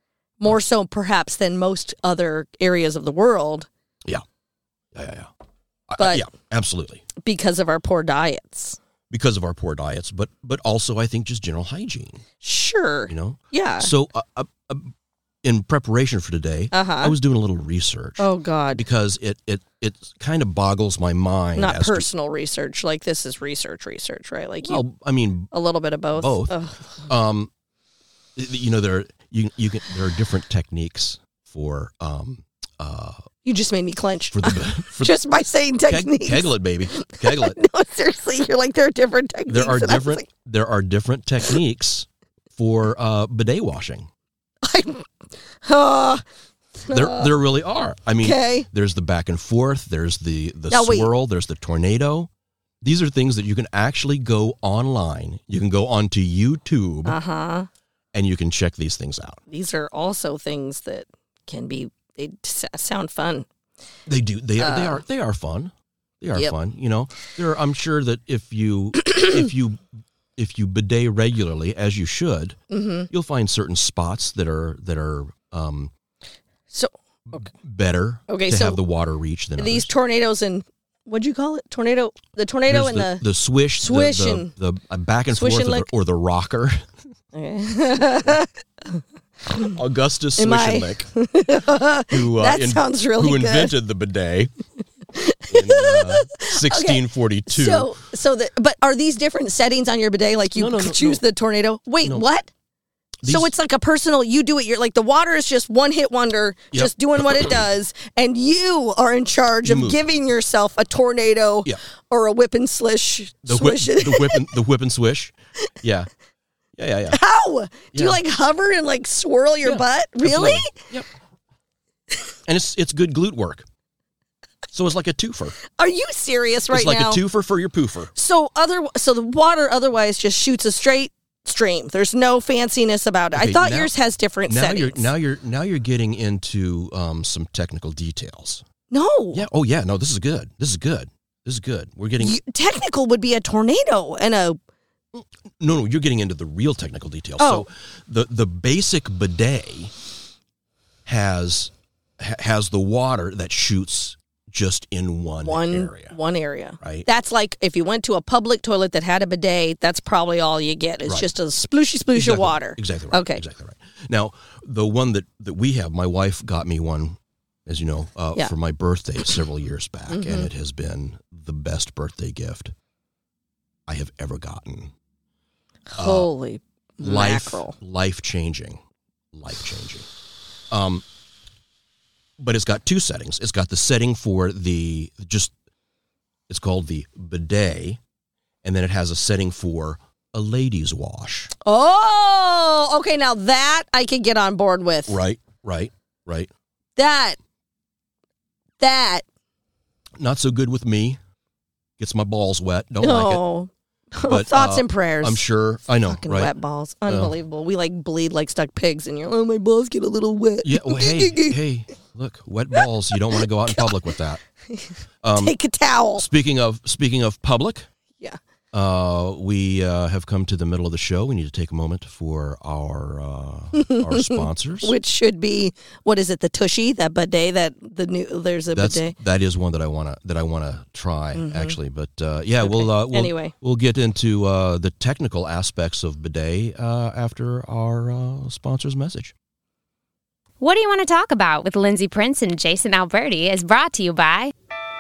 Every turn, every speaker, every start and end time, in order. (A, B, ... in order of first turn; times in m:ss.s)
0:00.4-0:03.7 A
0:05.0-0:05.3 B
0:05.9-0:07.0 B
0:06.0-0:06.2 A
0:07.2-0:08.8 A
0:09.1-0:12.2 B
0:12.4-0:13.9 A
0:13.1-0:22.1 B
0:16.7-0:17.2 A
0:18.2-0:18.8 A
0:21.6-0:24.8 A
0:24.6-0:25.5 B
0:25.5-0:26.9 A
0:26.2-0:26.6 B
0:27.1-0:27.5 B
0:28.4-0:33.2 B
0:33.4-0:40.3 A
0:34.3-0:35.2 B
0:35.9-0:37.6 B
0:39.5-0:44.1 B
0:44.6-0:45.1 A
0:45.6-0:46.2 A
0:46.8-0:47.4 A
0:46.9-0:52.3 B
0:48.2-0:48.7 A
0:50.7-0:51.1 A
0:52.8-0:57.2 B
0:57.0-0:57.7 A
0:58.1-0:59.4 B
0:59.5-1:03.5 A
1:04.1-1:09.8 B
1:04.6-1:05.0 A
1:10.4-1:12.6 B
1:12.7-1:13.1 A
1:13.1-1:15.9 B
1:17.3-1:19.9 B
1:18.3-1:18.8 A
1:19.6-1:23.2 A
1:22.7-1:26.8 B
1:23.8-1:24.5 A
1:25.3-1:25.9 A
1:27.3-1:29.8 A
1:29.7-1:31.1 B
1:30.4-1:33.8 A
1:32.1-1:34.5 B
1:35.1-1:42.5 A
1:35.5-1:37.9 B
1:40.6-1:41.2 B
1:43.2-1:43.5 B
1:43.2-1:54.5 A
1:46.7-1:47.6 B
1:49.6-1:50.0 B
1:53.4-1:56.1 B
1:56.8-1:57.2 B
1:57.1-2:00.8 A
1:57.9-1:58.2 B
1:59.6-2:01.1 B
2:02.5-2:03.7 B
2:04.7-2:05.6 B
2:05.7-2:07.2 A
2:06.7-2:08.1 B
2:08.2-2:15.1 A
2:13.3-2:13.9 B
2:14.5-2:18.6 B
2:18.9-2:19.4 A
2:19.3-2:22.4 B
2:22.2-2:24.6 A
2:25.1-2:29.9 B
2:27.4-2:27.7 A
2:31.1-2:36.2 B
2:35.4-2:43.4 A
2:36.8-2:37.1 B
2:42.1-2:52.7 B
2:50.1-2:50.5 A
2:53.9-2:54.9 B
2:55.9-2:57.8 A
2:56.0-2:56.3 B
2:57.0-2:58.8 B
2:59.3-3:00.1 B
3:00.7-3:01.0 B
3:02.4-3:05.5 B
3:06.5-3:08.0 B
3:08.6-3:11.5 B
3:11.6-3:15.2 A
3:15.1-3:16.5 B
3:17.0-3:17.4 A
3:18.8-3:19.2 A
3:20.2-3:21.2 B
3:22.0-3:23.4 B
3:23.0-3:25.4 A
3:24.2-3:26.5 B
3:26.0-3:31.6 A
3:27.1-3:27.4 B
3:30.6-3:34.4 B
3:34.7-3:36.3 A
3:35.2-3:35.6 B
3:36.2-3:37.9 B
3:38.7-3:44.9 B
3:43.8-3:49.1 A
3:48.7-3:59.3 B
3:51.4-3:51.8 A
3:52.6-3:53.5 A
4:00.6-4:04.5 C